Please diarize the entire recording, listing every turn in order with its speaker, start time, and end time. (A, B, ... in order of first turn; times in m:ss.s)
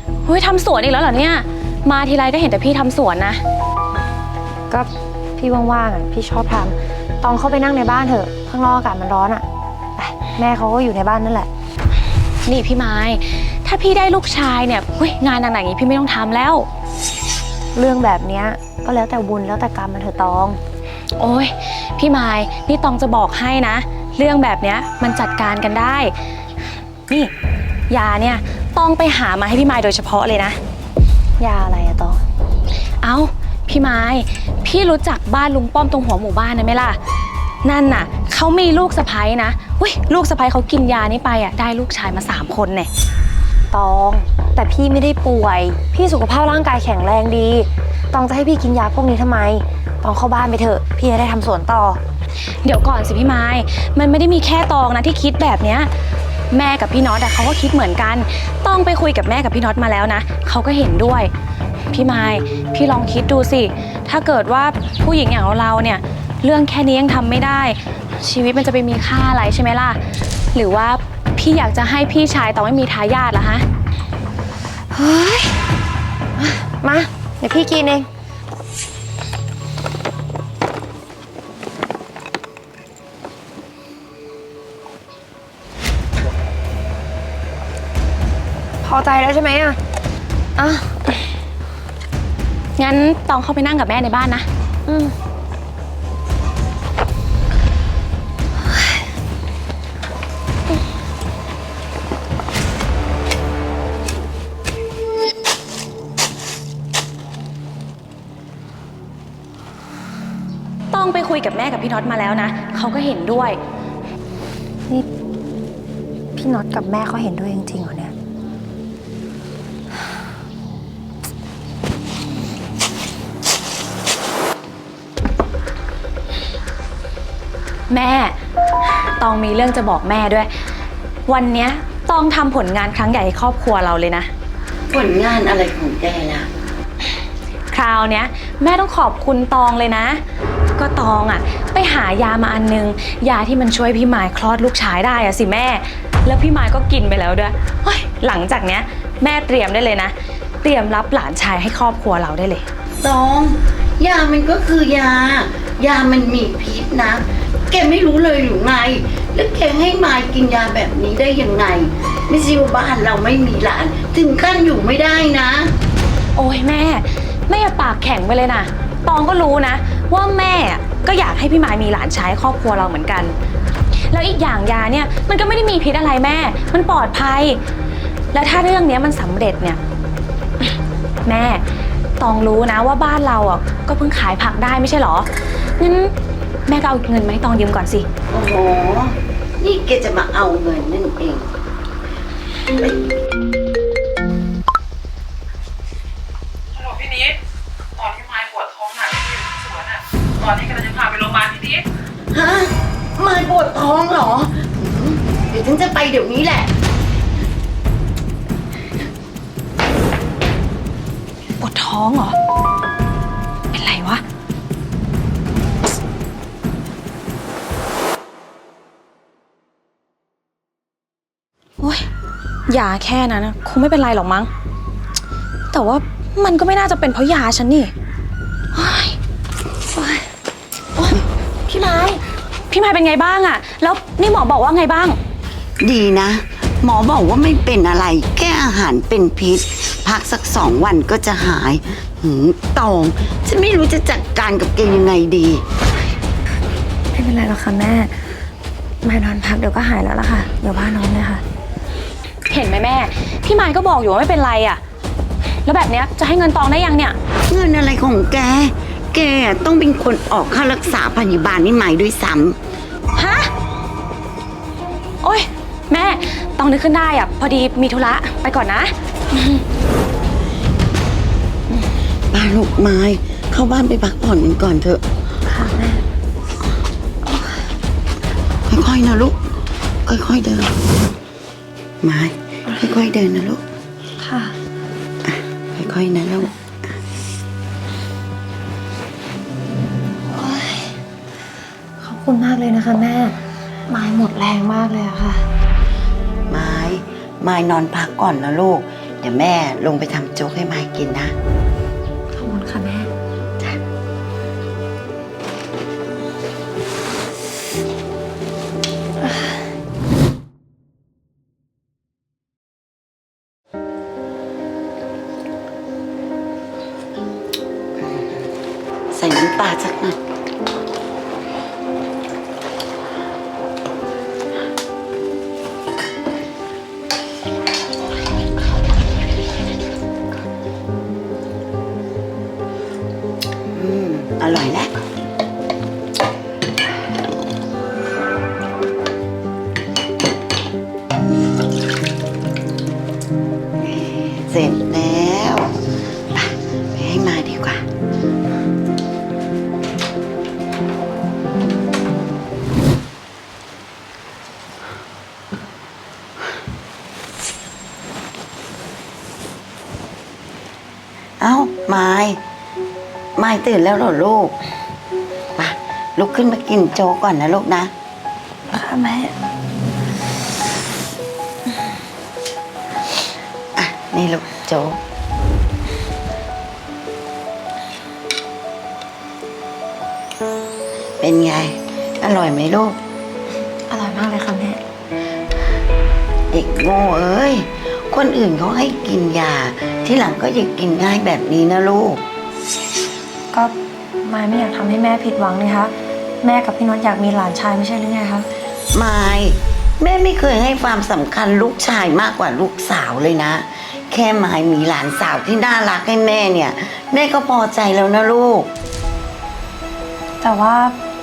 0:00.2-0:03.4 A
0:04.7-0:09.4 B
0:10.0-0:11.5 B
0:12.4-0:16.7 A
0:17.7-0:20.6 B
0:21.2-0:26.1 A
0:27.9-0:30.6 A
0:31.4-0:32.2 B
0:33.0-0:37.0 A
0:37.6-0:42.9 A
0:43.7-0:52.0 B
0:52.6-0:55.9 A
0:56.5-1:01.3 A
1:01.9-1:13.6 A
1:14.9-1:15.6 B
1:16.4-1:18.1 B
1:28.8-1:29.8 B
1:30.6-1:30.9 B
1:32.8-1:34.5 A
1:34.8-1:35.1 B
1:50.9-1:53.6 A
1:56.3-1:58.1 B
2:07.9-2:08.4 A
2:08.9-2:10.5 A
2:11.3-2:14.3 A
2:14.9-2:16.5 C
2:17.7-2:20.2 A
2:20.7-2:32.7 A
2:33.0-2:45.7 C
2:46.3-2:53.3 A
2:54.1-2:57.6 A
2:58.3-2:59.8 A
3:01.2-3:01.6 A
3:02.2-3:06.1 A
3:06.7-3:08.0 A
3:08.3-3:11.5 C
3:16.8-3:17.4 D
3:18.0-3:21.8 D
3:22.3-3:26.7 C
3:31.6-3:32.3 A
3:33.7-3:34.2 A
3:41.8-3:42.1 A
3:42.7-3:44.5 A
3:45.7-3:47.9 A
3:48.7-3:49.2 A
3:51.0-3:55.2 A
3:55.8-4:05.6 C
4:07.1-4:08.1 B
4:09.0-4:11.4 B
4:12.5-4:14.8 A
4:15.6-4:17.2 A
4:17.5-4:22.6 C
4:23.1-4:23.5 A
4:25.2-4:29.6 A
4:32.3-4:35.0 C
4:35.4-4:36.0 B
4:38.7-4:39.4 C
4:40.0-4:40.8 C
4:42.0-4:43.6 C
4:44.2-4:44.6 B
4:45.2-4:46.5 C
4:50.3-4:50.9 B
4:52.0-4:55.4 B
4:56.5-5:01.3 C
5:02.3-5:03.1 B
5:18.0-5:18.4 C
5:19.1-5:20.2 C
5:33.7-5:34.9 C
5:43.8-5:45.8 C
5:46.3-5:47.8 C
6:01.4-6:02.4 C
6:03.4-6:04.6 C
6:05.6-6:07.9 C
6:08.7-6:09.3 B
6:13.8-6:15.0 C
6:21.2-6:23.0 C
6:23.9-6:24.8 B
6:26.5-6:32.2 C
6:33.5-6:38.5 B
6:38.9-6:48.7 C
6:50.4-6:51.0 B